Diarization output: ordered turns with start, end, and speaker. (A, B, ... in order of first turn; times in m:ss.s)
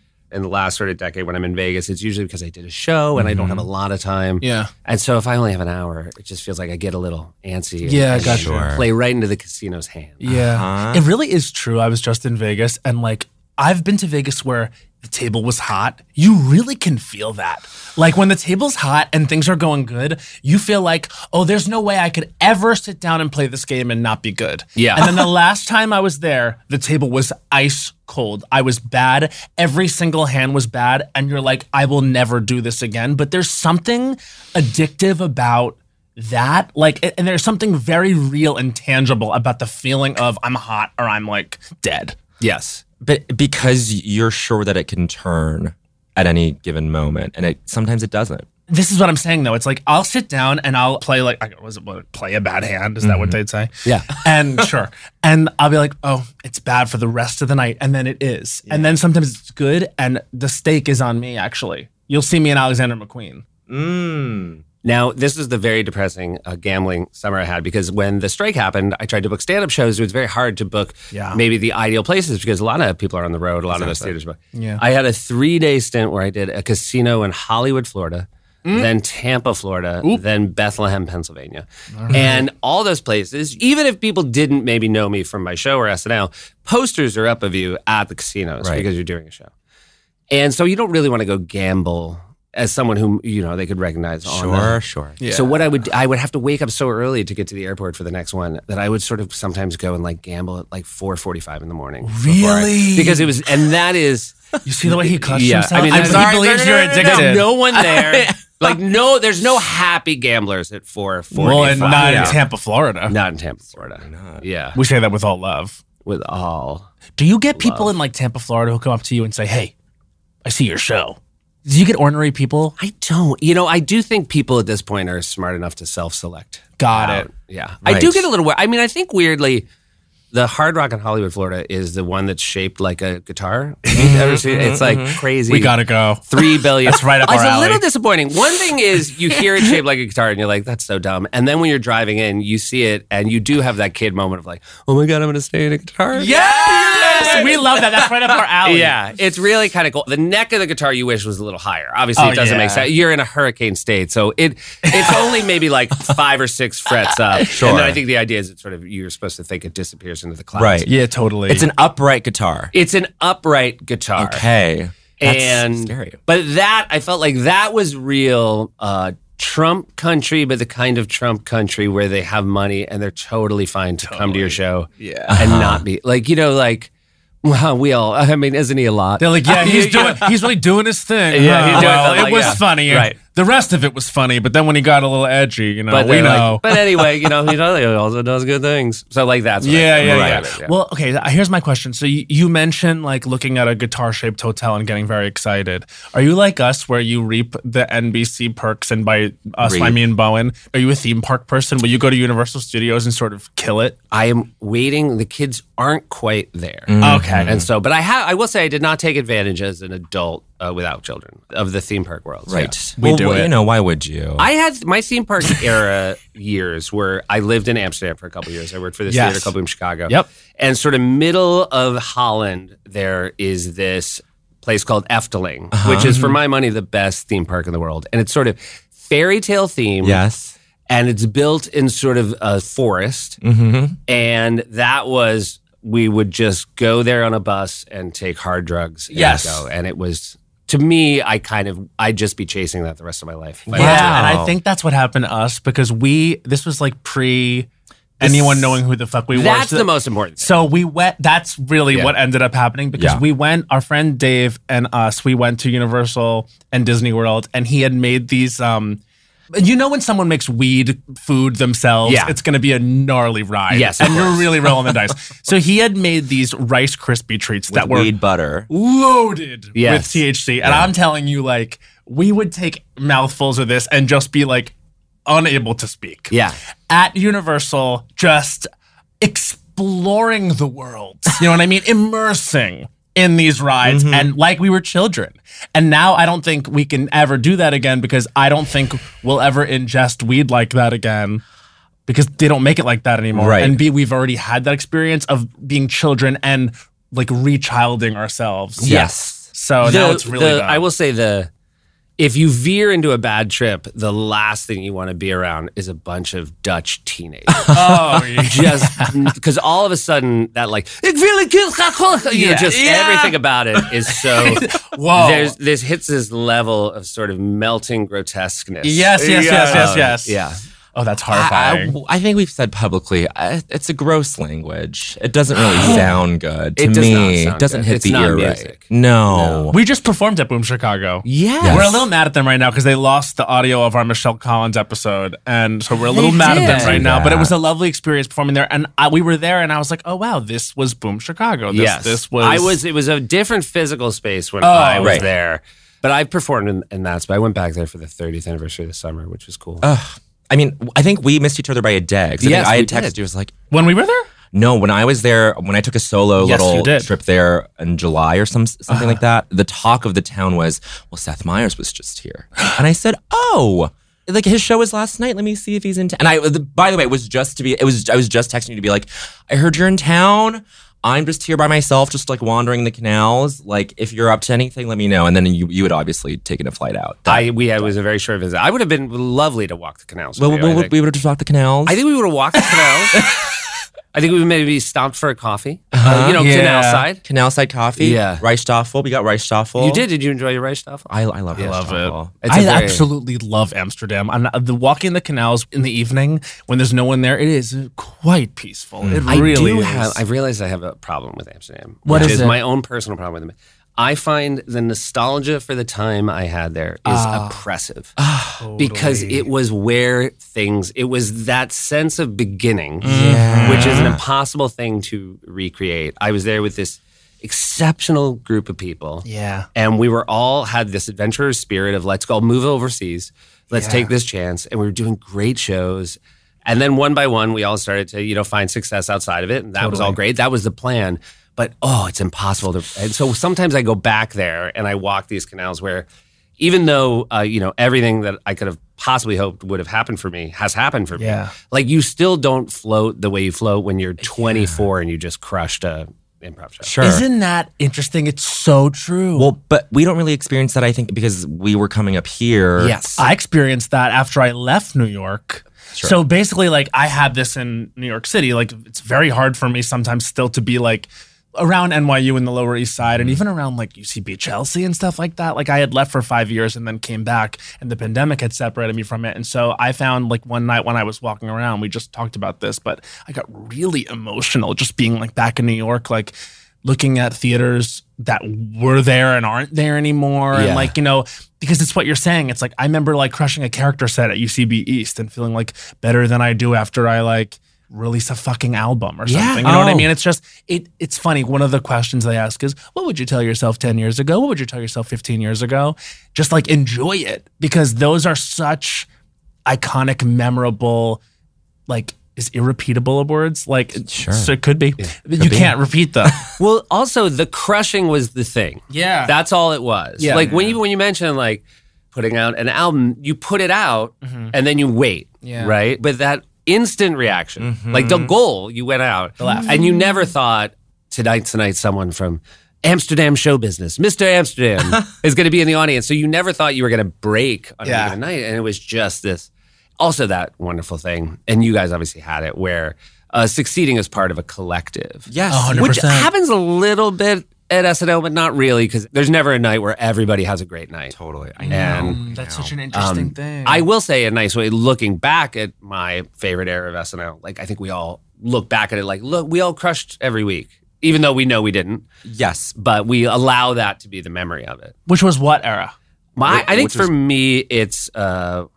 0:00.3-0:10.3 A
0:03.2-0:03.7 B
0:04.4-0:04.7 C
0:07.8-0:08.5 C
0:08.2-0:08.9 B
0:10.2-0:42.2 C
0:10.3-0:11.1 B
0:24.8-0:25.3 A
0:42.4-0:42.8 A
0:43.0-0:48.5 B
0:48.7-1:03.4 C
0:53.0-0:53.4 B
0:53.8-0:54.1 A
1:03.7-1:04.6 B
1:04.8-1:29.5 A
1:11.1-1:11.4 C
1:13.7-1:14.1 B
1:14.5-1:14.8 C
1:21.9-1:22.4 C
1:30.3-1:34.8 A
1:34.3-1:35.2 B
1:35.2-1:35.6 C
1:35.3-1:44.4 A
1:42.0-1:43.3 C
1:44.6-1:47.5 C
1:44.9-1:52.4 A
1:45.8-1:48.8 B
1:51.3-1:53.2 C
1:51.8-1:52.4 B
1:53.1-1:54.8 A
1:54.0-1:54.4 B
1:54.8-1:55.8 C
1:56.0-1:56.9 A
1:57.2-1:59.7 C
1:57.6-1:57.9 A
2:00.4-2:02.8 C
2:02.8-2:09.7 A
2:06.8-2:07.3 C
2:07.8-2:08.3 B
2:10.3-2:15.8 A
2:13.9-2:14.2 C
2:13.9-2:15.2 B
2:15.5-2:17.8 C
2:16.3-2:28.1 A
2:26.2-2:29.0 C
2:28.6-2:40.9 A
2:32.2-2:32.9 C
2:34.8-2:35.2 C
2:37.5-2:38.0 B
2:40.6-2:40.9 B
2:40.8-2:41.7 C
2:41.5-2:42.7 B
2:42.7-2:44.4 A
2:44.2-2:46.2 B
2:45.2-2:56.9 A
2:54.0-2:55.4 C
2:55.3-2:55.8 B
2:57.4-3:00.3 A
2:59.2-3:06.7 C
3:01.3-3:03.2 A
3:05.9-3:10.7 A
3:09.6-3:24.0 C
3:10.0-3:10.4 B
3:19.6-3:20.0 B
3:24.1-3:32.9 A
3:26.9-3:27.7 B
3:27.0-3:27.5 C
3:32.5-3:34.5 B
3:33.0-3:33.5 C
3:34.4-3:50.2 A
3:39.1-3:39.5 C
3:45.7-3:46.1 B
3:46.0-3:46.4 C
3:50.0-3:50.6 B
3:50.9-3:53.4 A
3:53.4-3:54.0 B
3:54.1-4:04.2 A
3:59.1-3:59.4 B
3:59.1-3:59.6 C
4:03.7-4:04.6 B
4:03.7-4:07.7 C
4:08.2-4:09.9 C
4:08.2-4:08.8 A
4:09.3-4:10.6 A
4:10.4-4:19.0 C
4:13.0-4:13.2 B
4:19.5-4:28.1 C
4:22.0-4:22.4 A
4:23.7-4:24.7 A
4:27.7-4:28.7 B
4:28.7-4:34.7 C
4:29.8-4:30.2 A
4:30.6-4:30.9 B
4:35.3-4:36.4 C
4:36.3-4:36.6 A
4:36.9-4:38.7 C
4:39.2-4:51.4 C
4:43.8-4:44.3 B
4:52.1-4:59.0 C
4:53.3-4:53.8 B
4:58.8-4:59.2 A
4:58.8-4:59.5 B
4:59.5-5:00.9 C
4:59.8-5:01.5 A
5:02.2-5:20.6 A
5:07.7-5:09.1 C
5:12.3-5:13.3 C
5:14.1-5:15.6 C
5:18.8-5:20.4 C
5:19.4-5:20.1 B
5:21.0-5:22.0 C
5:21.3-5:29.8 B
5:25.7-5:26.1 C
5:25.8-5:26.2 A
5:26.8-5:29.7 A
5:29.7-5:42.8 C
5:31.2-5:32.0 A
5:31.6-5:32.0 B
5:36.1-5:37.0 A
5:36.4-5:37.5 B
5:41.7-5:49.9 A
5:44.6-5:45.3 C
5:45.0-5:45.3 B
5:49.8-5:53.5 B
5:52.4-5:53.2 A
5:53.7-5:54.3 C
5:54.5-6:17.9 B
5:56.4-5:57.1 C
5:58.9-5:59.2 C
6:17.3-6:21.0 A
6:20.4-6:22.0 B
6:21.9-6:23.2 A
6:24.1-6:27.2 A
6:25.9-6:26.4 B
6:26.4-6:27.0 C
6:27.2-6:30.0 B
6:28.0-6:28.4 A
6:29.8-6:31.8 A
6:31.1-6:32.3 B
6:31.6-6:40.2 C
6:32.4-6:33.1 A
6:39.0-6:39.4 B
6:39.3-6:48.2 A
6:42.0-6:42.6 C
6:42.1-6:42.4 B
6:47.0-6:47.6 C
6:48.2-6:48.6 B
6:48.6-6:49.5 C
6:48.8-7:16.1 A
6:53.0-6:54.2 C
6:53.0-6:54.2 B
6:59.2-6:59.7 C
7:03.7-7:04.1 C
7:09.8-7:10.2 C
7:16.6-7:26.9 A
7:21.2-7:21.5 C
7:26.8-7:27.2 B
7:27.0-7:29.5 C
7:29.4-7:33.0 B
7:32.8-7:33.3 A
7:33.2-8:19.1 C
8:00.5-8:00.9 A
8:09.3-8:09.6 A
8:09.6-8:10.1 B
8:19.7-8:21.2 C
8:21.9-8:26.4 C
8:24.1-8:24.5 B
8:25.4-8:26.5 B
8:26.6-9:01.2 A
8:28.9-8:29.3 C
8:30.2-8:30.5 C
8:30.3-8:30.8 B
8:34.2-8:34.5 C
8:35.4-8:35.8 C
8:37.6-8:38.3 B
8:39.4-8:40.0 C
8:47.8-8:48.2 C
8:55.3-8:56.0 B
8:55.5-8:56.3 C
9:01.1-9:02.7 B
9:01.6-9:03.9 C
9:01.7-9:02.2 A
9:02.9-9:12.0 A
9:12.2-9:12.8 B
9:12.8-9:15.0 A
9:15.1-9:16.0 C
9:16.4-9:18.7 A
9:16.4-9:17.1 B